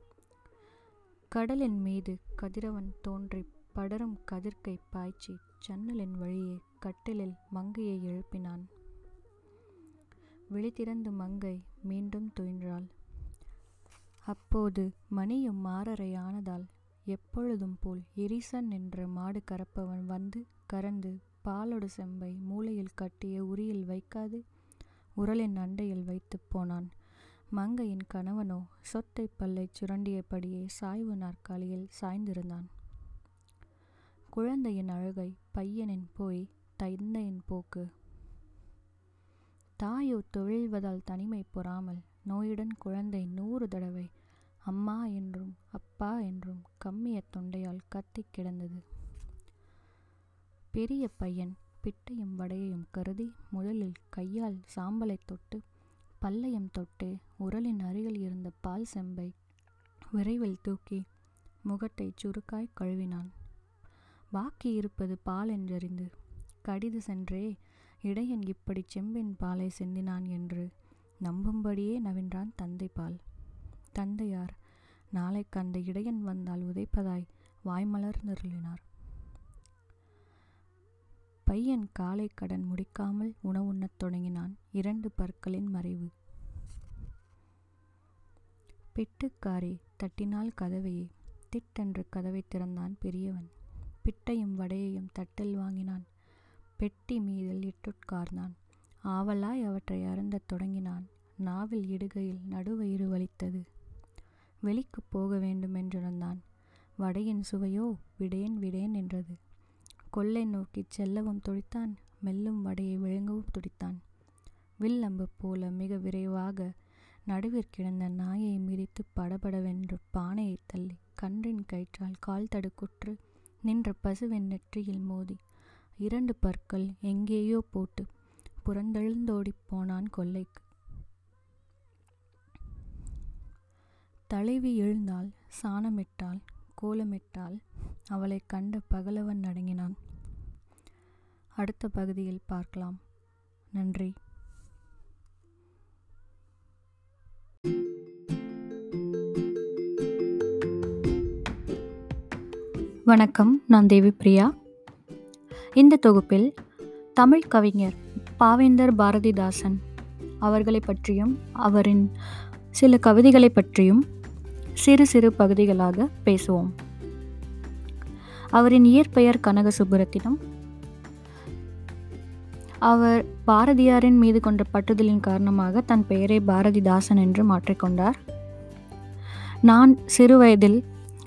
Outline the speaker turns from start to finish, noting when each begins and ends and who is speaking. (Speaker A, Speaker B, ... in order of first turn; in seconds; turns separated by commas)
Speaker A: 1.3-8.7, Speaker A: 10.5-12.9, Speaker A: 14.3-24.4, Speaker A: 25.2-26.9, Speaker A: 27.5-32.7, Speaker A: 34.3-37.9, Speaker A: 39.8-44.1, Speaker A: 44.7-48.8, Speaker A: 50.7-55.6, Speaker A: 56.2-59.3, Speaker A: 60.1-61.0, Speaker A: 61.6-63.3, Speaker A: 64.3-66.1, Speaker A: 66.6-67.5, Speaker A: 68.0-70.7, Speaker A: 71.2-73.2, Speaker A: 73.9-74.5, Speaker A: 75.1-78.8, Speaker A: 81.5-86.1, Speaker A: 88.9-96.0, Speaker A: 96.8-98.5, Speaker A: 99.1-103.6, Speaker A: 104.6-106.4, Speaker A: 107.0-109.4, Speaker A: 110.1-114.0, Speaker A: 114.8-116.7, Speaker A: 117.3-125.4, Speaker A: 126.0-128.1, Speaker A: 128.6-130.6, Speaker A: 134.3-140.0, Speaker A: 141.6-143.0, Speaker A: 143.7-144.1, Speaker A: 153.1-154.5, Speaker A: 155.8-156.5, Speaker A: 157.2-159.8, Speaker A: 160.4-162.1, Speaker A: 162.7-164.0, Speaker A: 164.8-166.7, Speaker A: 168.5-170.4, Speaker A: 172.8-178.2, Speaker A: 179.7-180.8